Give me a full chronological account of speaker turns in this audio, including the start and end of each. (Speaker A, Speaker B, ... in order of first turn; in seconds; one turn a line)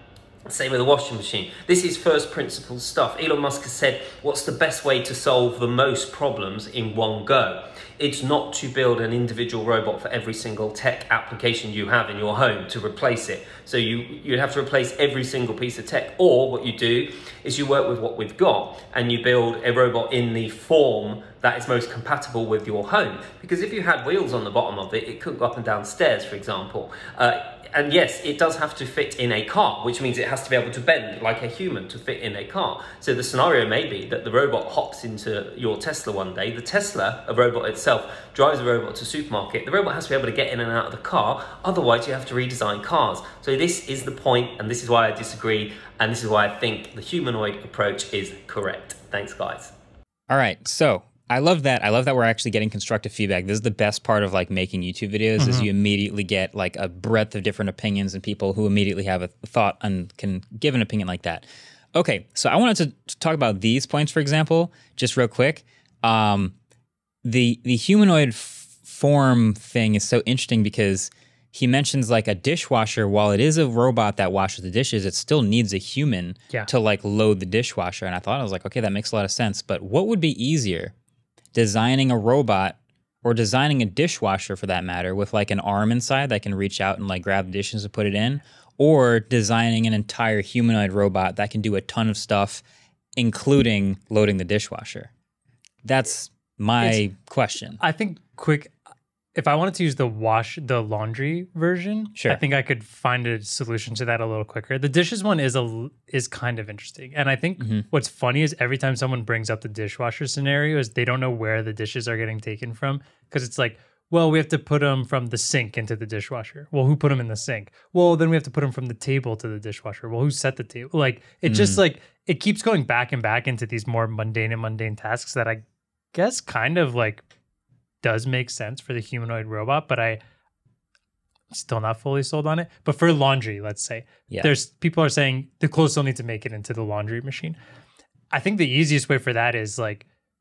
Speaker A: 0.5-49.7
Speaker B: 50.3-66.5
Speaker C: 55.4-55.7
Speaker B: 67.2-80.9
Speaker B: 81.5-92.6
Speaker B: 93.2-95.1
Speaker B: 95.8-97.8
Speaker C: 97.8-98.7
Speaker C: 99.3-125.6
Speaker B: 102.2-102.4
Speaker B: 121.4-121.8
Speaker C: 126.1-127.2
Speaker C: 128.0-130.2
Speaker C: 131.5-137.6
Speaker C: 138.3-140.1